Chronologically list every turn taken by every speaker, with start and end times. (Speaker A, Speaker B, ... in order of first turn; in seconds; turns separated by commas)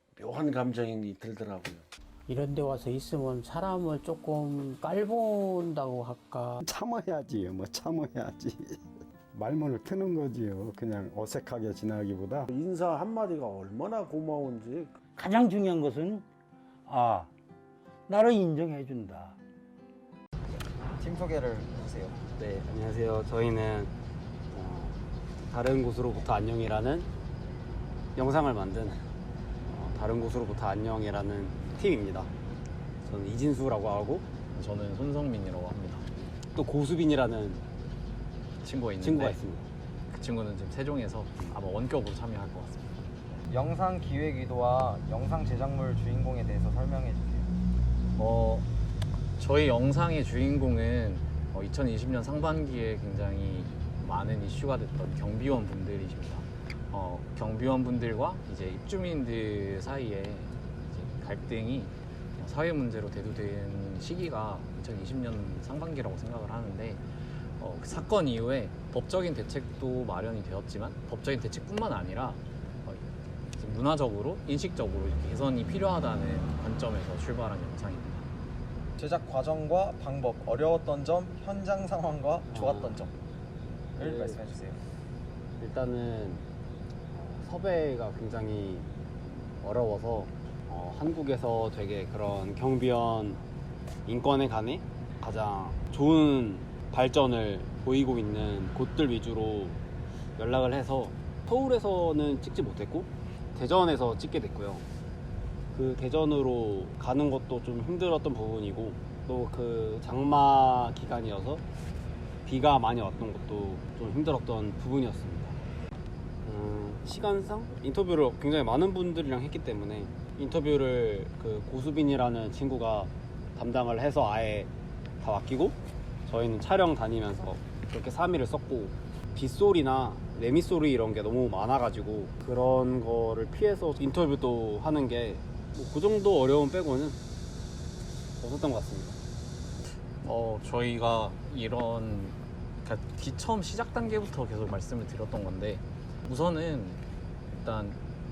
Speaker A: 0.1-1.9, Speaker B: 2.3-6.6, Speaker C: 6.6-8.8, Speaker C: 9.3-12.5, Speaker A: 12.5-15.0, Speaker D: 15.1-16.2, Speaker D: 16.9-17.3, Speaker D: 18.1-19.4, Speaker E: 21.0-22.2, Speaker F: 22.4-23.9, Speaker F: 24.5-27.1, Speaker F: 28.1-29.0, Speaker F: 29.6-32.3, Speaker F: 33.0-34.2, Speaker G: 34.5-36.1, Speaker F: 36.5-37.6, Speaker G: 38.6-39.4, Speaker F: 39.0-39.7, Speaker G: 40.1-43.0, Speaker E: 43.5-47.5, Speaker G: 48.1-48.7, Speaker G: 49.4-67.0, Speaker G: 67.6-78.2, Speaker E: 79.0-83.1, Speaker F: 82.5-83.0, Speaker E: 84.0-84.8, Speaker F: 84.0-84.4, Speaker F: 85.6-86.4, Speaker F: 87.1-93.4, Speaker F: 94.0-99.8, Speaker F: 100.3-104.8, Speaker F: 105.7-111.6, Speaker F: 112.4-115.6, Speaker F: 116.4-137.2, Speaker F: 138.4-139.2, Speaker G: 140.2-148.0